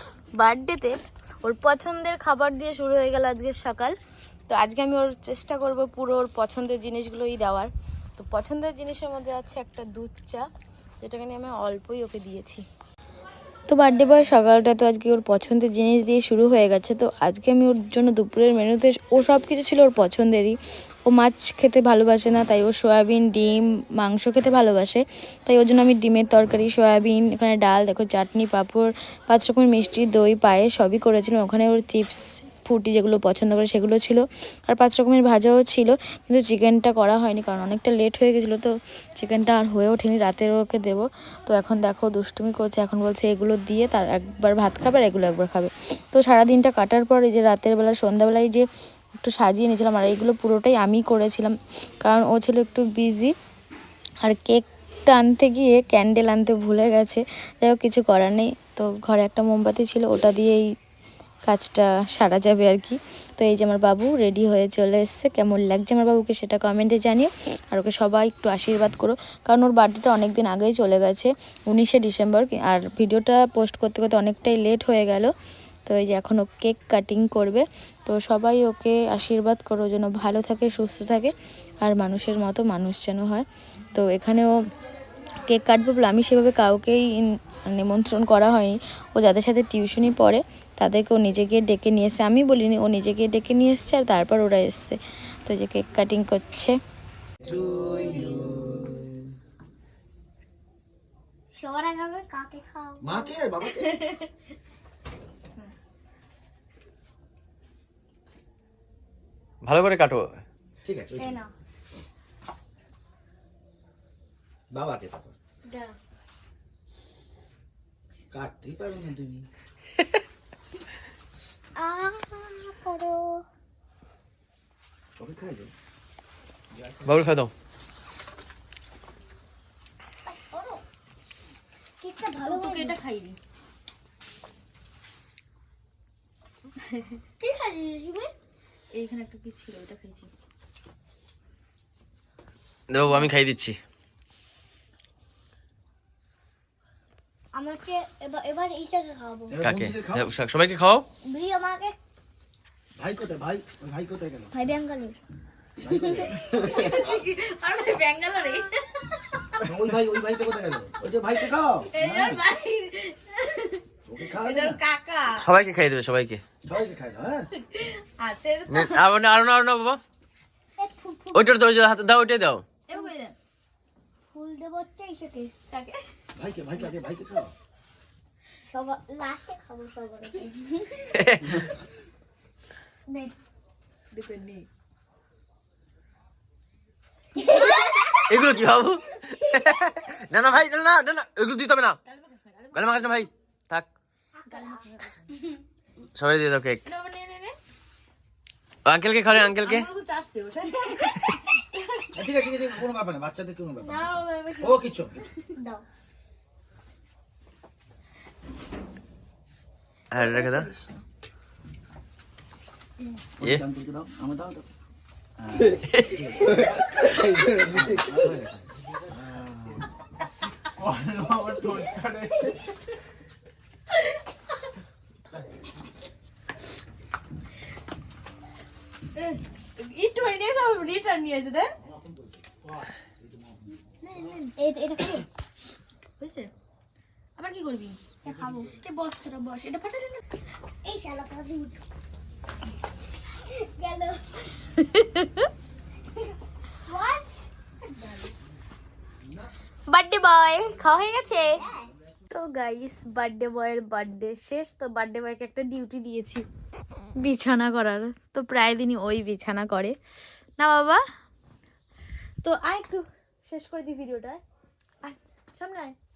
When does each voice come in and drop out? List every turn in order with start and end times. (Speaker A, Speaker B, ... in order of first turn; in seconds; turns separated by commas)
Speaker A: 0.4-3.9, Speaker A: 4.5-10.5, Speaker A: 11.0-12.6, Speaker A: 13.7-48.6, Speaker A: 49.2-53.3, Speaker A: 54.2-60.6, Speaker A: 61.5-75.3, Speaker A: 75.8-84.5, Speaker A: 85.4-96.8, Speaker B: 97.5-98.4, Speaker C: 97.7-98.5, Speaker D: 101.5-103.3, Speaker B: 103.0-103.9, Speaker A: 103.9-104.3, Speaker C: 109.6-110.4, Speaker B: 110.8-111.4, Speaker D: 111.2-111.5, Speaker B: 114.7-115.3, Speaker D: 115.6-116.0, Speaker B: 118.3-119.5, Speaker D: 121.8-123.4, Speaker B: 125.2-125.7, Speaker C: 127.0-127.5, Speaker D: 130.3-130.8, Speaker D: 132.0-133.0, Speaker A: 132.4-133.4, Speaker D: 137.4-138.3, Speaker A: 138.9-140.3, Speaker C: 142.9-143.8, Speaker D: 147.5-149.6, Speaker B: 149.5-150.3, Speaker C: 149.6-151.1, Speaker D: 151.2-151.9, Speaker B: 152.9-154.5, Speaker D: 154.5-155.2, Speaker B: 155.8-156.8, Speaker D: 155.9-156.3, Speaker A: 156.4-159.6, Speaker B: 159.6-162.4, Speaker A: 161.9-165.5, Speaker B: 164.0-164.8, Speaker C: 165.4-166.4, Speaker B: 166.6-167.5, Speaker A: 167.6-169.0, Speaker C: 168.7-170.0, Speaker D: 170.8-171.6, Speaker C: 171.3-172.6, Speaker A: 172.9-173.3, Speaker D: 174.3-175.5, Speaker A: 175.7-176.0, Speaker B: 176.3-177.5, Speaker D: 178.7-181.0, Speaker C: 181.1-181.6, Speaker D: 183.1-183.3, Speaker A: 184.1-184.7, Speaker D: 187.4-188.0, Speaker C: 188.3-192.0, Speaker A: 192.1-193.3, Speaker C: 192.7-193.9, Speaker D: 194.4-194.8, Speaker A: 194.5-195.3, Speaker C: 196.1-196.8, Speaker A: 196.8-197.5, Speaker C: 198.8-199.9, Speaker A: 199.3-202.5, Speaker B: 202.1-205.2, Speaker A: 203.8-204.9, Speaker D: 205.6-205.8, Speaker C: 210.1-210.7, Speaker A: 210.1-211.0, Speaker B: 213.4-214.7, Speaker B: 215.4-219.8, Speaker C: 215.6-218.2, Speaker B: 220.7-222.6, Speaker A: 229.2-231.7, Speaker B: 231.8-233.8, Speaker A: 234.0-234.6, Speaker D: 234.6-235.3, Speaker A: 236.2-236.5, Speaker A: 237.4-240.2, Speaker D: 238.2-238.7, Speaker D: 240.8-241.8, Speaker D: 243.5-244.6, Speaker A: 244.8-245.5, Speaker D: 246.8-247.5, Speaker A: 247.9-248.3, Speaker A: 249.9-251.6, Speaker D: 251.6-251.9, Speaker A: 252.3-256.4, Speaker A: 257.1-259.9, Speaker A: 260.6-261.0, Speaker A: 262.4-264.4, Speaker A: 265.0-265.9